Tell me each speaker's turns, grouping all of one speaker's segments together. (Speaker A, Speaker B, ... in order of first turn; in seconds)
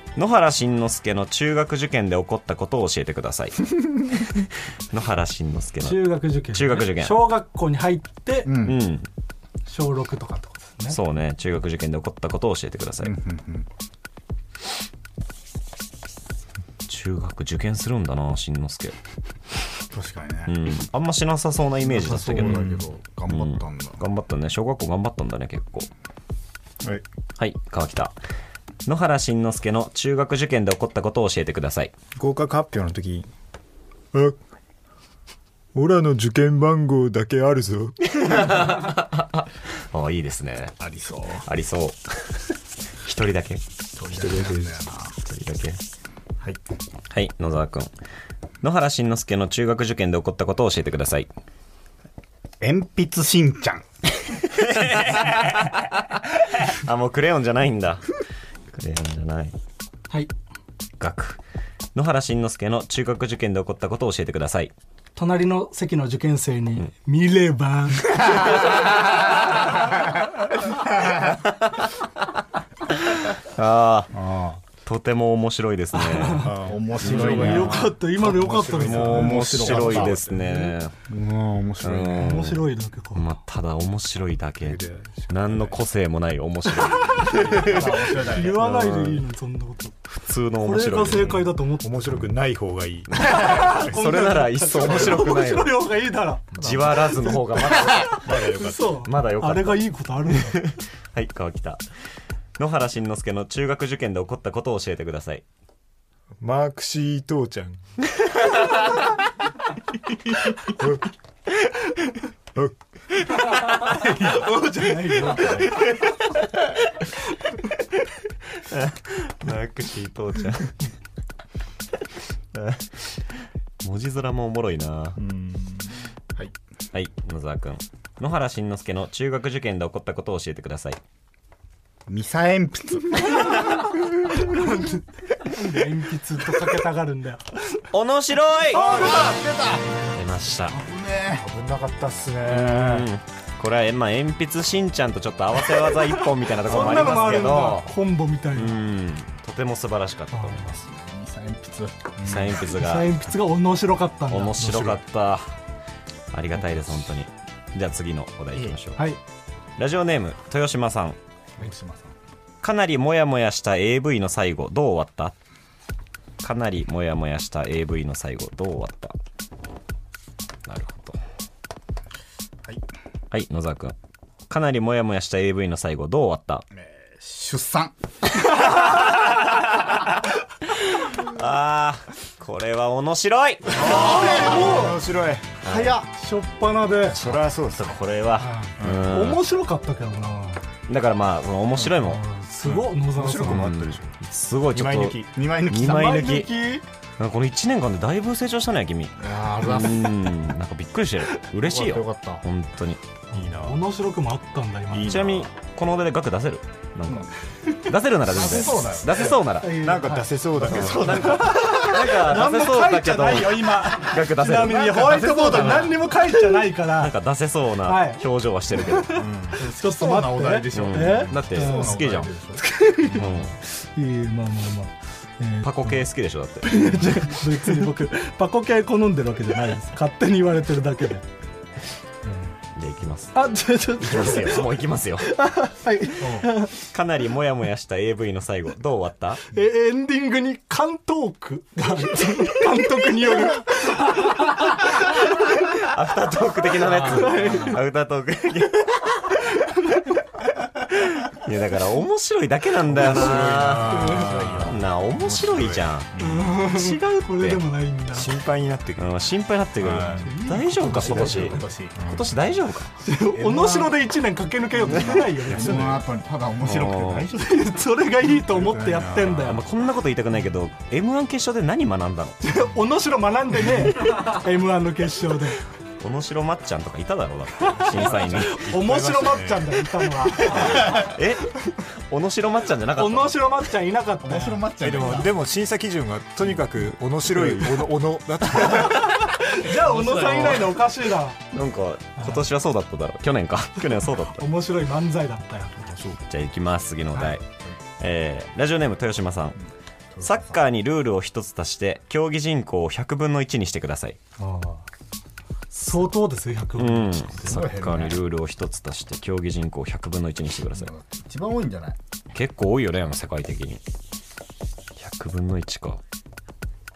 Speaker A: 0.2-7.3, 8.6-9.1, 10.9-13.1, 16.9-19.0, 20.5-25.9, 27.4-28.1, 28.9-31.9, 38.1-40.8, 41.4-42.5, 43.0-43.6, 45.3-45.8, 47.1-47.9, 48.6-51.3, 54.6-58.2, 58.7-59.5, 61.0-61.4, 62.0-64.7, 71.3-71.9, 73.1-74.1, 74.8-77.8, 78.6-80.9, 81.8-89.2, 90.1-91.5, 93.1-95.8, 96.6-101.8, 102.6-105.4, 118.6-120.8, 122.5-123.2, 123.8-125.2, 126.9-131.0, 137.9-139.1, 140.1-140.8, 142.4-147.9, 148.5-150.8, 152.2-153.2, 154.3-155.5, 156.3-159.1, 159.8-161.2, 162.6-165.3, 166.4-169.2, 170.7-171.2, 173.3-173.9, 174.5-176.7, 178.5-180.1, 180.8-183.8, 185.6-186.0, 187.2-189.4, 190.9-192.2, 193.4-196.5, 197.2-203.0, 205.0-209.8, 210.6-215.9, 216.9-219.3, 220.7-222.3, 223.1-223.6, 225.6-227.4, 232.8-233.4, 234.0-235.4, 236.7-239.4, 245.7-249.5, 251.0-256.1, 256.7-257.6, 259.0-262.9, 266.6-267.3, 269.5-272.4, 276.0-278.6, 280.6-283.4, 287.3-287.8, 289.7-290.8, 291.5-294.4, 296.3-297.4, 298.0-299.6, 300.2-304.2, 306.8-310.9, 312.3-313.8, 315.0-316.0
Speaker B: 5.8-8.5, 9.7-11.0, 65.2-68.5, 75.9-76.5, 77.2-79.3, 82.2-83.3, 87.0-87.3, 88.3-90.0, 90.6-91.9, 93.2-96.4, 98.3-100.6, 113.9-116.0, 134.3-137.6, 146.7-148.8, 150.3-150.8, 152.7-155.0, 183.8-185.0, 186.0-187.2, 188.4-190.6, 191.9-193.7, 195.9-196.8, 203.6-205.2, 209.6-217.1, 217.8-218.2, 218.7-226.0, 226.6-231.2, 232.2-232.6, 233.3-234.6, 235.2-236.7, 239.5-245.1, 247.0-247.8, 253.9-254.5, 256.2-258.3, 260.2-261.6, 263.0-266.0, 267.4-269.6, 272.4-275.6, 277.8-281.1, 283.0-285.2, 288.8-291.4, 292.2-292.4, 294.1-295.9, 304.4-304.8, 305.7-307.6
Speaker C: 8.5-8.8, 13.0-13.7, 19.9-20.6, 21.9-24.0, 40.8-41.5, 44.0-45.1, 52.6-53.9, 74.1-74.6, 76.6-78.0, 78.8-80.2, 81.1-82.5, 87.5-88.7, 132.1-134.1, 138.7-139.8, 140.7-141.4, 150.7-152.5, 161.6-162.1, 176.7-177.9, 183.8-184.6, 185.7-186.0, 195.3-196.4, 199.2-200.2, 201.7-202.4, 208.3-209.4, 214.6-216.0, 219.6-222.6, 236.2-236.5, 247.2-247.5, 254.0-254.8, 260.9-262.0, 263.6-263.8, 264.8-267.7, 284.2-285.3, 300.1-300.6, 307.5-308.2, 310.7-312.0
Speaker D: 22.0-22.9, 32.2-33.3, 35.7-38.0, 44.1-44.8, 76.4-80.7, 84.6-85.8, 87.4-87.8, 91.8-93.8, 94.8-95.2, 96.5-97.4, 98.0-98.9, 106.4-107.8, 110.7-111.0, 115.3-115.7, 125.2-125.9, 138.8-139.3, 141.4-143.1, 152.2-152.5, 154.6-155.0, 183.8-185.6, 187.1-188.0, 188.8-189.1, 192.6-194.2, 194.7-195.3, 203.3-203.8, 204.9-205.5, 209.7-211.6, 219.1-219.6, 252.9-256.6, 258.1-259.2, 259.8-262.4, 265.5-266.0, 268.2-269.6, 277.9-279.9, 284.8-289.2, 295.8-296.2